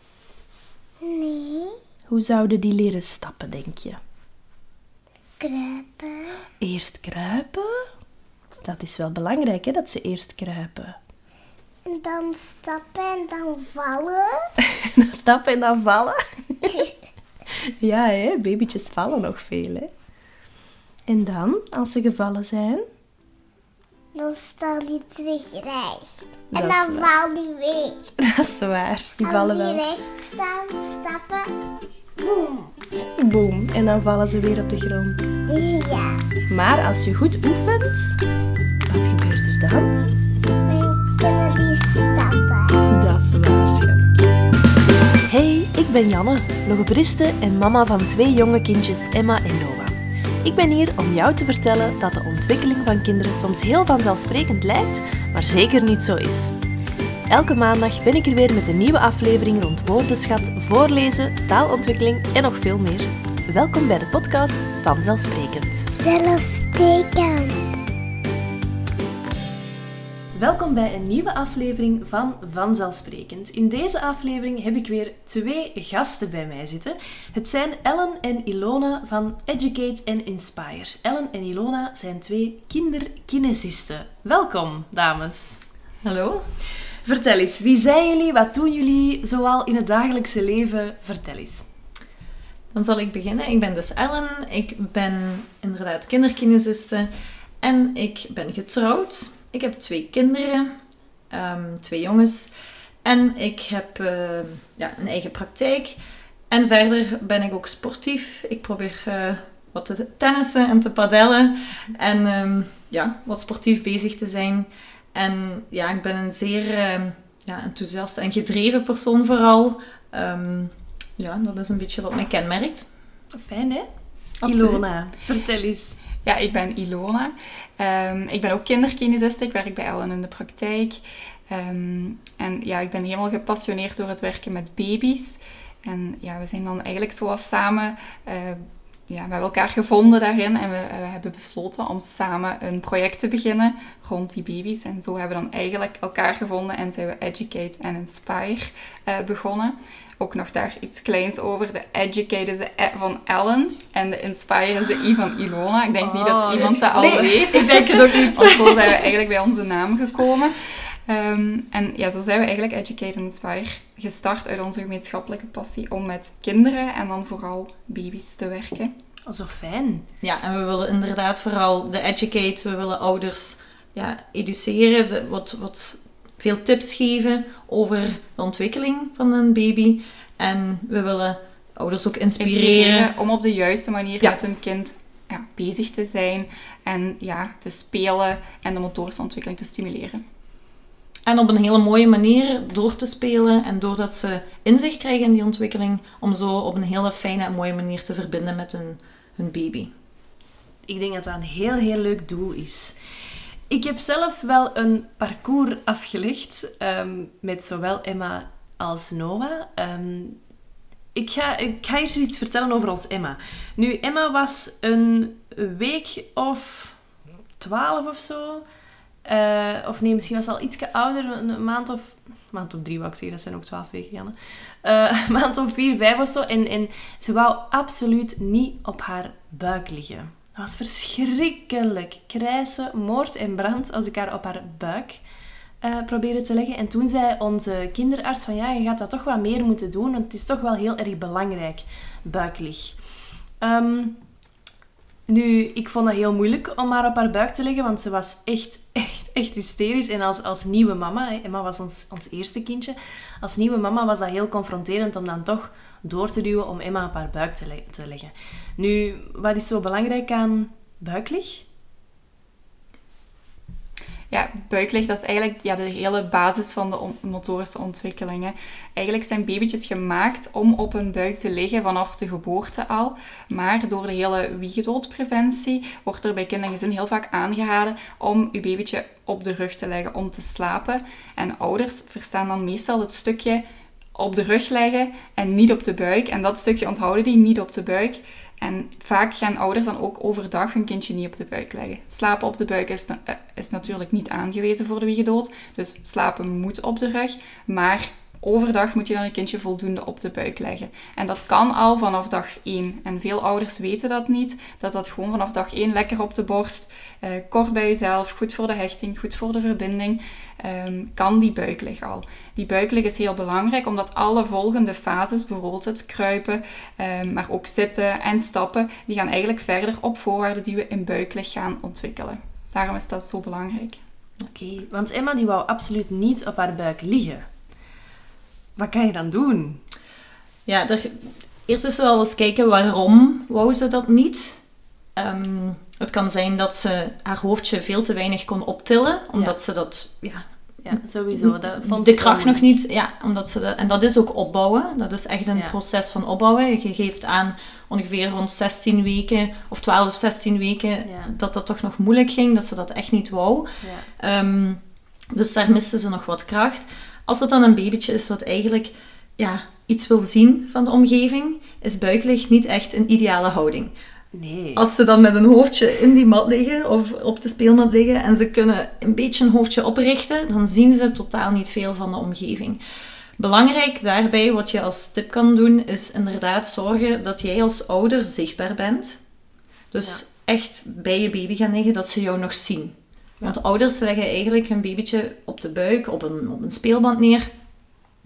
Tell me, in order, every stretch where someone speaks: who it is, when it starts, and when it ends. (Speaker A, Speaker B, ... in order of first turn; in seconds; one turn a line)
Speaker A: 1.0-1.8
Speaker B: 2.1-4.0
Speaker A: 5.4-6.4
Speaker B: 6.6-7.9
Speaker B: 8.6-11.0
Speaker A: 11.8-14.4
Speaker B: 14.8-16.8
Speaker B: 17.8-19.9
Speaker B: 21.1-22.9
Speaker A: 24.1-28.0
Speaker B: 26.5-27.1
Speaker B: 28.2-29.8
Speaker A: 29.2-31.5
Speaker B: 33.2-35.2
Speaker A: 35.5-36.2
Speaker B: 36.5-38.2
Speaker B: 38.9-39.9
Speaker A: 40.6-42.8
Speaker B: 42.9-44.1
Speaker B: 45.2-56.5
Speaker B: 57.3-65.9
Speaker A: 65.9-67.7
Speaker B: 70.3-85.6
Speaker C: 86.0-86.4
Speaker B: 86.7-91.7
Speaker C: 92.7-97.1
Speaker C: 97.6-100.7
Speaker C: 101.3-102.5
Speaker C: 103.0-106.0
Speaker C: 106.5-122.8
Speaker B: 123.3-123.9
Speaker C: 124.4-124.8
Speaker B: 124.4-126.0
Speaker D: 126.2-168.9
Speaker B: 156.0-158.0
Speaker C: 156.5-159.1
Speaker B: 169.3-170.0
Speaker C: 170.2-183.1
Speaker D: 182.4-190.2
Speaker C: 191.3-199.9
Speaker B: 200.8-202.9
Speaker B: 203.7-210.4
Speaker B: 211.1-217.0
Speaker B: 217.6-218.6
Speaker B: 219.2-235.2
Speaker B: 235.8-244.2
Speaker B: 245.3-261.6
Speaker D: 264.3-283.6
Speaker D: 284.1-324.0
Speaker B: 324.5-327.5
Speaker B: 328.8-329.8
Speaker C: 330.6-334.6
Speaker C: 335.1-340.4
Speaker B: 340.8-342.8
Speaker C: 341.3-363.9
Speaker B: 345.5-345.8
Speaker B: 351.0-351.3
Speaker B: 353.8-354.1
Speaker B: 364.3-364.9
Speaker C: 364.8-372.8
Speaker C: 373.4-379.2
Speaker C: 379.9-387.5